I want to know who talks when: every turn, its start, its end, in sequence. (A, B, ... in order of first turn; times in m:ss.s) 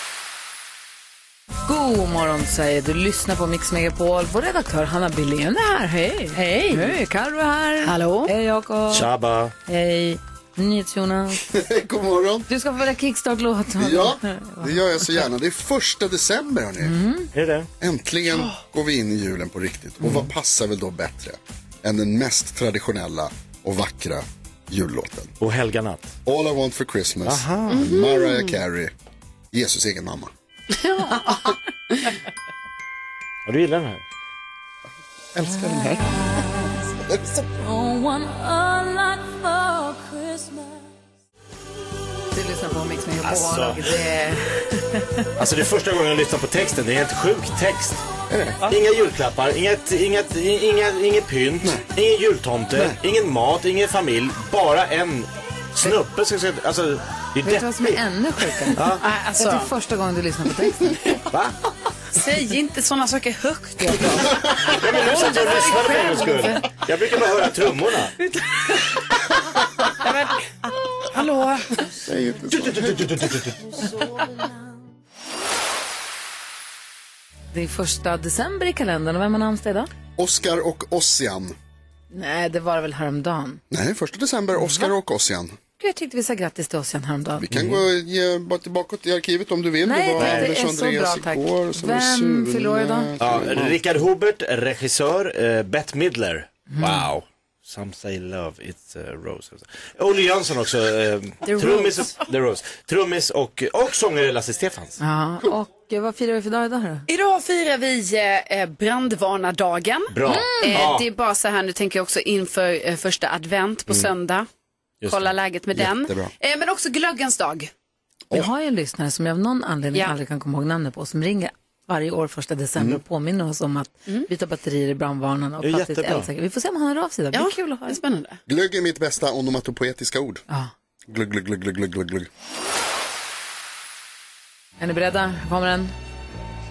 0:01.7-0:09.1 A
0:06.6-0:06.9 B
0:07.8-0:08.3 B
0:08.9-0:09.5 C
0:09.7-0:11.4 A
0:11.4-0:12.5 D
0:12.5-0:15.2 A
0:13.8-0:17.0 D
0:16.8-0:17.3 A
0:17.3-0:17.7 C
0:17.8-0:25.3 D
0:25.4-0:26.2 C
0:26.2-0:28.9 D
0:27.2-0:27.8 C
0:27.7-0:28.6 B
0:29.5-0:30.3 D
0:30.8-0:32.1 B
0:33.4-0:34.0 C
0:35.4-0:36.0 C
0:37.1-0:37.4 D
0:37.6-0:39.8 A
0:42.3-0:45.2 A
0:43.2-0:43.8 C
0:45.4-0:48.0 C
0:48.3-0:48.6 D
0:48.6-0:58.0 C
0:57.4-0:58.8 A
0:58.7-0:59.0 C
0:59.0-0:59.7 B
0:59.4-1:00.9 A
1:02.1-1:06.7 B
1:03.8-1:04.2 A
1:04.2-1:08.1 C
1:10.0-1:10.4 B
1:11.1-1:11.8 B
1:12.0-1:13.1 D
1:12.5-1:13.6 C
1:17.5-1:19.9 A
1:20.2-1:21.5 D
1:22.1-1:23.6 A
1:23.7-1:25.6 D
1:24.6-1:24.9 A
1:25.8-1:27.8 A
1:27.4-1:33.8 D
1:29.8-1:33.1 A
1:30.2-1:30.5 C
1:33.2-1:45.0 C
1:36.7-1:37.1 A
1:41.5-1:42.1 B
1:45.0-1:47.0 A
1:47.1-1:54.5 B
1:50.1-1:51.0 C
1:50.3-1:50.8 A
1:55.0-1:55.3 C
1:55.1-1:57.7 B
1:55.7-1:56.3 D
1:58.3-2:08.0 A
2:05.6-2:06.3 C
2:07.3-2:08.4 B
2:08.5-2:10.4 D
2:11.1-2:12.3 D
2:14.8-2:15.9 A